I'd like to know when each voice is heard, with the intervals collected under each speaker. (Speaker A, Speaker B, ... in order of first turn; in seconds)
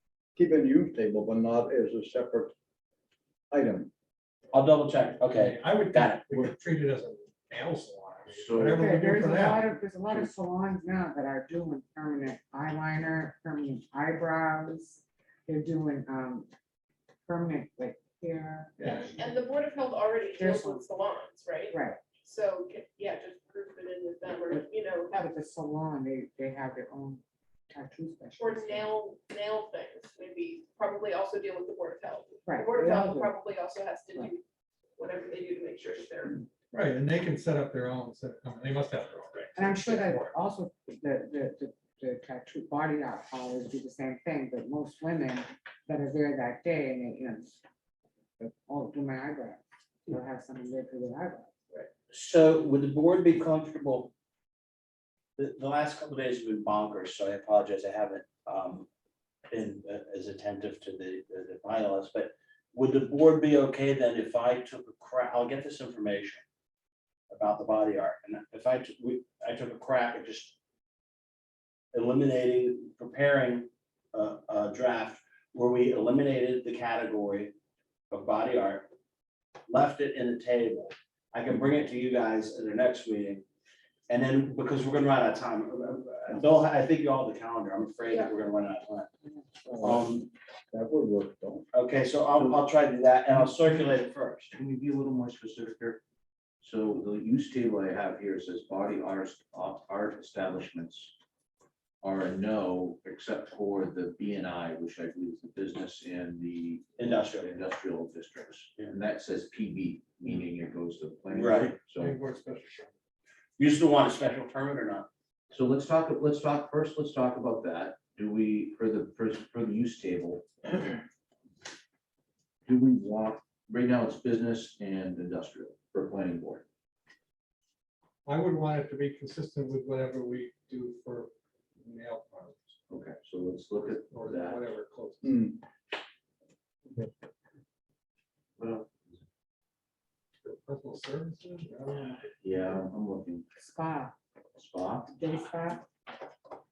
Speaker A: 0.4-2.5, 3.5-3.9, 89.7-90.1, 90.7-91.7, 135.2-135.6
Speaker B: 4.5-6.3, 51.7-54.1, 55.4-58.9, 59.5-66.4, 67.3-70.6, 71.9-77.5, 78.1-78.9, 79.7-83.5, 84.1-89.1, 89.8-90.3, 91.7-94.5, 107.0-107.5, 111.3-111.8, 113.6-115.1
Speaker C: 5.3-9.7, 18.8-19.1, 36.7-39.8, 112.0-112.9, 128.2-132.8, 133.8-135.5, 140.4-142.3
Speaker D: 8.3-8.8, 93.3-93.9, 94.5-96.0, 96.6-101.2, 102.0-112.2, 115.5-121.0, 122.7-126.7, 132.9-134.7, 138.6-139.2, 142.4-143.5, 144.6-145.2
Speaker E: 8.6-16.5, 17.3-19.3, 20.4-20.8, 21.7-22.0, 24.5-28.9, 32.5-33.4, 39.5-47.6, 48.4-51.5, 143.6-144.2, 145.1-145.9
Speaker F: 18.9-25.3, 28.4-34.4, 35.0-36.5